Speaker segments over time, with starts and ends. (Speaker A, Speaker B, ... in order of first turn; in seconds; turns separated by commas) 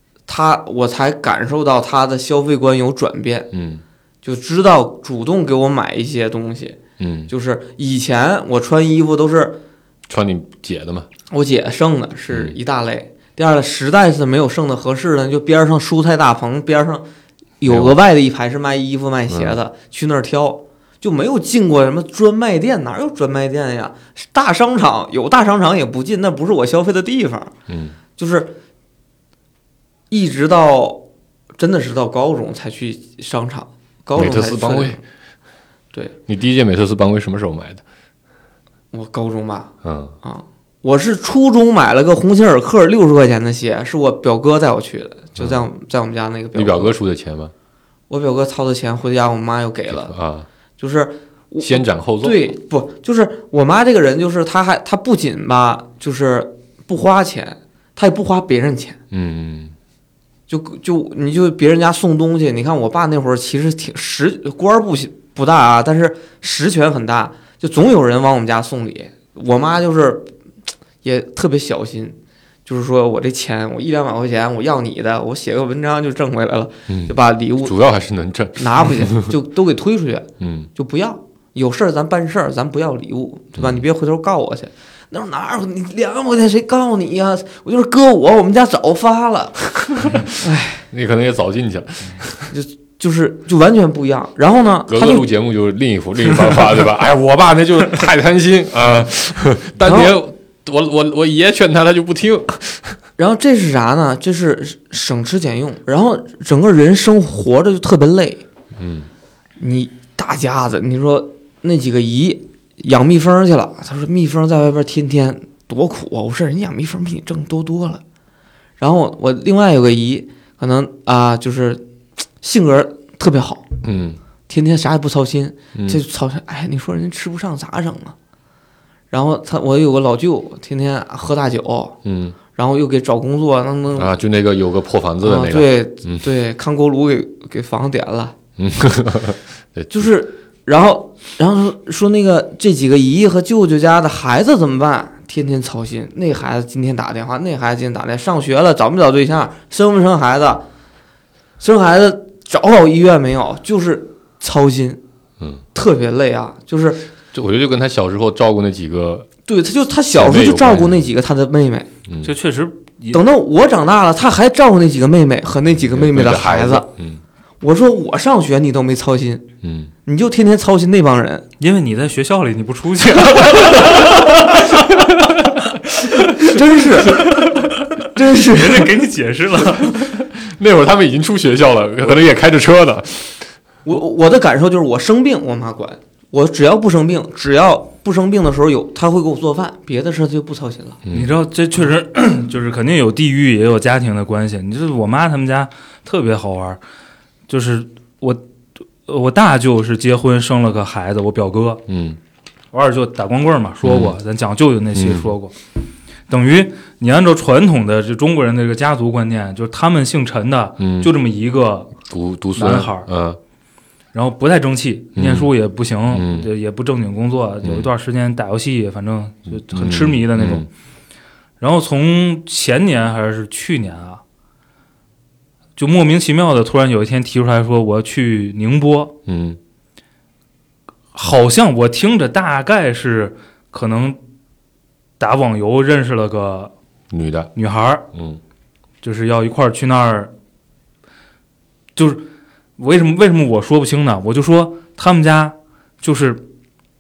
Speaker A: 0.3-3.5, Speaker B: 3.5-3.8, Speaker A: 4.2-9.6, Speaker B: 7.0-7.3, Speaker B: 10.1-11.1, Speaker A: 11.3-17.1, Speaker B: 12.3-12.6, Speaker A: 17.6-27.5, Speaker B: 17.7-18.0, Speaker B: 19.3-19.6, Speaker B: 27.7-28.0, Speaker A: 28.2-28.6, Speaker A: 30.1-31.1, Speaker A: 31.6-35.0, Speaker B: 34.2-35.0, Speaker B: 36.3-37.8, Speaker A: 38.9-47.0, Speaker B: 39.8-40.1, Speaker B: 45.4-45.6, Speaker B: 46.5-47.5, Speaker A: 48.1-50.1, Speaker B: 49.9-50.5, Speaker A: 50.8-59.0, Speaker B: 51.6-52.4, Speaker B: 59.1-59.7, Speaker A: 60.5-70.3, Speaker A: 71.0-77.8, Speaker B: 76.9-79.3, Speaker A: 78.6-90.8, Speaker B: 80.4-80.7, Speaker B: 90.0-90.4, Speaker B: 90.9-92.5, Speaker A: 92.5-95.3, Speaker B: 94.9-103.0, Speaker A: 99.8-100.2, Speaker A: 103.2-108.5, Speaker B: 108.8-109.1, Speaker A: 109.6-118.0, Speaker A: 118.8-121.8, Speaker A: 122.4-123.7, Speaker B: 123.8-124.2, Speaker A: 124.5-128.2, Speaker B: 125.7-126.0, Speaker A: 129.1-132.0, Speaker B: 132.0-132.4, Speaker A: 132.6-134.1, Speaker B: 133.9-136.3, Speaker A: 135.2-138.4, Speaker B: 138.6-140.1, Speaker A: 139.9-150.7, Speaker A: 151.6-155.0, Speaker A: 155.7-157.1, Speaker B: 157.3-159.3, Speaker A: 159.5-161.9, Speaker B: 160.1-161.0, Speaker B: 162.1-162.3, Speaker C: 162.2-163.2, Speaker A: 163.1-166.9, Speaker B: 165.8-167.2, Speaker A: 167.6-169.5, Speaker B: 169.6-169.9, Speaker A: 170.1-171.5, Speaker C: 171.6-175.8, Speaker A: 176.3-177.5, Speaker C: 177.0-180.1, Speaker A: 178.1-179.0, Speaker B: 179.8-183.5, Speaker A: 183.8-191.0, Speaker B: 191.1-191.3, Speaker C: 191.1-196.8, Speaker C: 197.5-198.4, Speaker C: 199.1-201.8, Speaker B: 201.9-202.2, Speaker C: 202.7-205.6, Speaker B: 203.8-204.2, Speaker B: 204.9-205.3, Speaker C: 206.3-212.0, Speaker B: 210.8-211.1, Speaker B: 212.1-213.4, Speaker C: 212.6-213.1, Speaker C: 214.1-220.7, Speaker B: 215.2-215.5, Speaker B: 216.1-216.5, Speaker B: 217.6-217.9, Speaker B: 219.5-220.7, Speaker C: 221.6-224.2, Speaker C: 225.8-229.2, Speaker B: 229.3-229.6, Speaker C: 231.1-234.2, Speaker C: 235.2-236.7, Speaker B: 237.1-237.5, Speaker C: 237.6-238.1, Speaker B: 238.1-238.4, Speaker C: 239.0-240.3, Speaker C: 242.0-242.3, Speaker C: 242.8-246.4